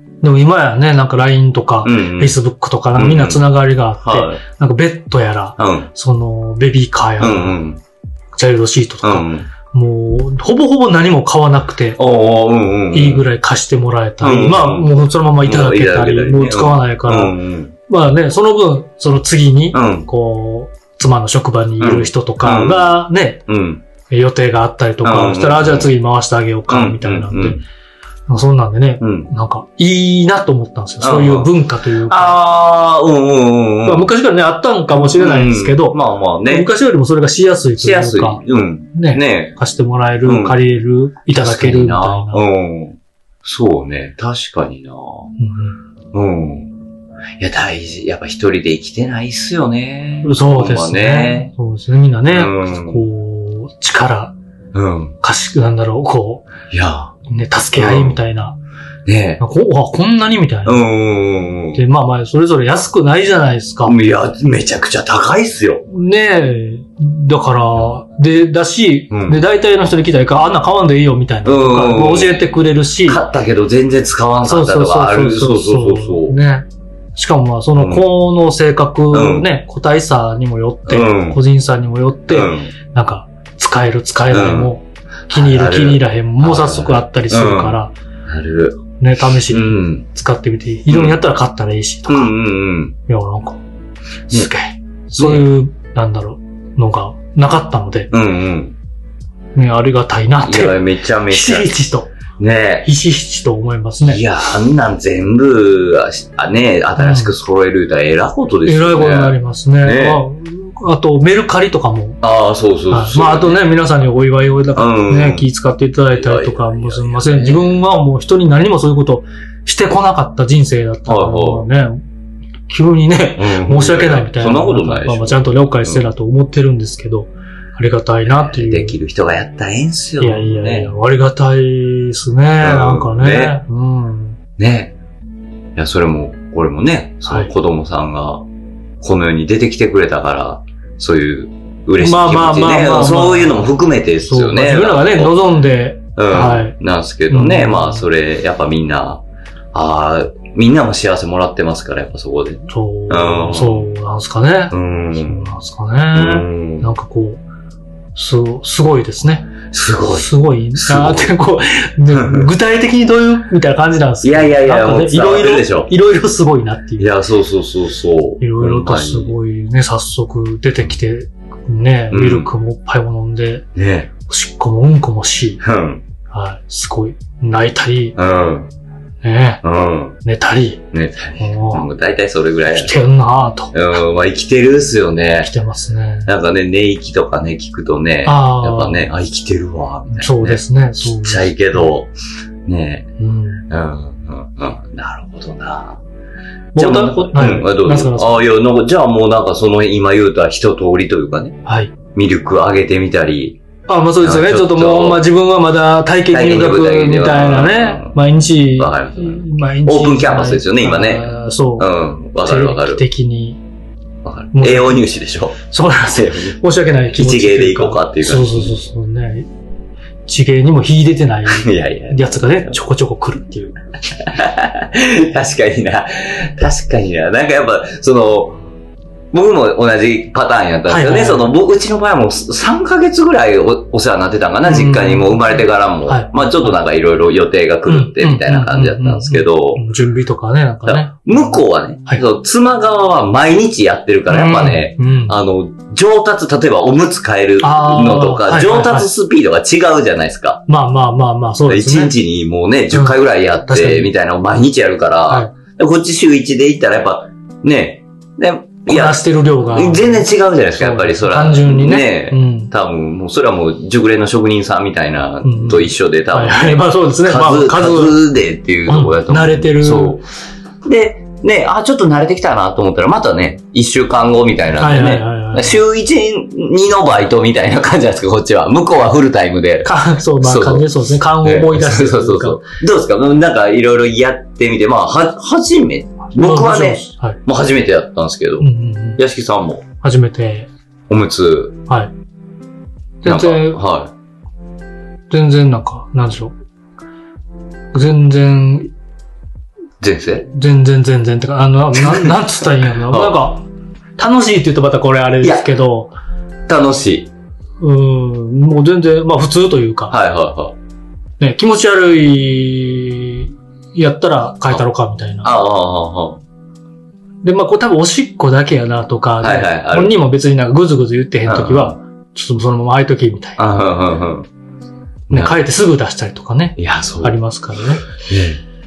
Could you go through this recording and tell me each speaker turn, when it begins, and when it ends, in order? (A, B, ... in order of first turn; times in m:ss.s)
0:00.2-0:07.6 A
0:01.8-0:02.4 B
0:03.0-0:03.5 B
0:04.0-0:04.4 B
0:05.6-0:05.9 B
0:07.2-0:07.8 B
0:08.4-0:12.0 A
0:09.0-0:09.5 B
0:12.0-0:13.3 B
0:12.9-0:17.4 A
0:14.2-0:17.7 B
0:17.9-0:23.4 A
0:19.7-0:20.1 B
0:21.8-0:23.8 B
0:24.1-0:27.6 A
0:25.0-0:25.9 B
0:26.7-0:27.6 B
0:28.3-0:32.4 A
0:29.0-0:29.3 B
0:31.0-0:31.5 B
0:32.1-0:34.1 B
0:33.9-0:38.4 A
0:34.9-0:36.7 B
0:37.8-0:39.6 B
0:38.9-0:42.4 A
0:40.2-0:40.6 B
0:41.3-0:45.3 B
0:45.4-0:45.8 A
0:46.1-0:46.7 B
0:47.4-0:51.5 B
0:50.2-0:54.4 A
0:52.3-0:53.0 B
0:54.7-0:55.2 B
0:55.2-0:56.5 A
0:56.7-0:57.2 B
0:57.3-0:58.6 A
0:57.8-0:58.2 B
0:59.1-0:59.4 B
0:59.4-1:00.8 A
1:00.7-1:01.8 B
1:01.8-1:04.0 A
1:03.9-1:05.8 B
1:05.9-1:13.2 A
1:09.1-1:09.4 B
1:11.4-1:16.4 B
1:14.4-1:27.9 A
1:17.8-1:18.1 B
1:19.1-1:19.5 B
1:20.9-1:21.4 B
1:22.3-1:22.7 B
1:24.3-1:24.7 B
1:25.3-1:28.8 B
1:29.0-1:32.3 A
1:29.5-1:30.0 B
1:30.9-1:31.2 B
1:32.1-1:33.0 B
1:33.1-1:33.6 A
1:34.3-1:38.1 A
1:35.2-1:35.5 B
1:38.1-1:38.8 B
1:39.6-1:42.1 A
1:40.4-1:41.8 B
1:42.4-1:42.9 B
1:42.8-1:44.2 A
1:44.0-1:50.2 B
1:47.0-1:47.3 A
1:48.6-1:52.2 A
1:52.2-1:53.7 B
1:52.9-2:02.0 A
1:54.7-1:55.5 B
1:56.1-1:57.8 B
2:01.1-2:01.7 B
2:02.7-2:09.0 A
2:03.4-2:06.1 B
2:08.2-2:10.9 B
2:10.2-2:14.4 A
2:12.6-2:13.6 B
2:14.6-2:15.0 B
2:15.8-2:18.4 B
2:17.3-2:17.5 A
2:19.0-2:25.4 B
2:22.0-2:26.8 A
2:26.2-2:29.2 B
2:27.3-2:28.0 A
2:29.7-2:33.9 B
2:32.7-2:37.4 A
2:34.7-2:35.5 B
2:36.1-2:36.9 B
2:38.2-2:39.5 A
2:39.7-2:41.4 B
2:40.1-2:47.1 A
2:42.1-2:42.5 B
2:44.2-2:45.9 B
2:47.0-2:49.4 B
2:48.4-2:53.6 A
2:52.1-2:52.5 B
2:53.8-2:54.1 B
2:54.3-2:55.6 A
2:55.6-2:56.0 B
2:56.3-2:58.2 A
2:58.2-2:58.7 B
2:59.2-2:59.6 A
2:59.6-3:00.2 B
3:00.2-3:00.8 A
3:00.9-3:03.0 B
3:01.4-3:01.9 A
3:02.7-3:03.7 A
3:03.7-3:05.5 B
3:05.4-3:06.3 A
3:06.3-3:12.1 B
3:08.2-3:09.1 A
3:10.1-3:11.8 A
3:12.7-3:13.1 B
3:13.2-3:13.6 A
3:13.7-3:16.0 B
3:16.8-3:18.4 A
3:16.8-3:21.6 B
3:21.7-3:21.9 A
3:22.2-3:23.6 B
3:23.9-3:31.9 A
3:24.2-3:25.2 B
3:26.3-3:28.1 B
3:28.8-3:33.0 B
3:32.4-3:33.6 A
3:34.2-3:36.6 B
3:34.5-3:35.1 A
3:35.7-3:39.5 A
3:37.1-3:38.8 B
3:40.3-3:43.8 A
3:41.5-3:42.8 B
3:44.3-3:48.6 B
3:49.3-3:59.8 B
3:50.9-3:51.5 A
3:54.6-3:56.8 A
3:57.9-4:02.2 A
4:00.9-4:10.6 B
4:04.3-4:05.4 A
4:07.6-4:09.1 A
4:10.7-4:12.2 A
4:11.7-4:19.2 B
4:12.9-4:14.1 A
4:18.9-4:22.7 A
4:19.7-4:30.2 B
4:25.4-4:28.2 A
4:28.9-4:30.2 A
4:30.8-4:40.9 B
4:34.8-4:35.8 A
4:39.8-4:42.7 A
4:41.4-4:49.8 B
4:46.4-4:47.4 A
4:48.6-4:49.2 A
4:50.0-4:50.7 A
4:51.1-4:51.8 B
4:53.2-4:53.8 A
4:53.2-4:54.1 B
4:55.3-4:56.6 A
4:57.9-4:58.9 A
5:00.0-5:00.5 B
5:00.5-5:03.7 A
5:03.1-5:03.4 B
5:04.2-5:06.1 A
5:05.4-5:05.7 B
5:06.7-5:07.3 B
5:07.8-5:10.2 A
5:10.1-5:10.8 B
5:11.4-5:15.5 A
5:15.4-5:16.4 B
5:17.4-5:23.6 A
5:19.4-5:20.2 B
5:21.4-5:22.0 B
5:23.6-5:24.5 B
5:25.3-5:25.6 B
5:25.3-5:28.0 A
5:26.8-5:27.4 B
5:28.2-5:28.6 B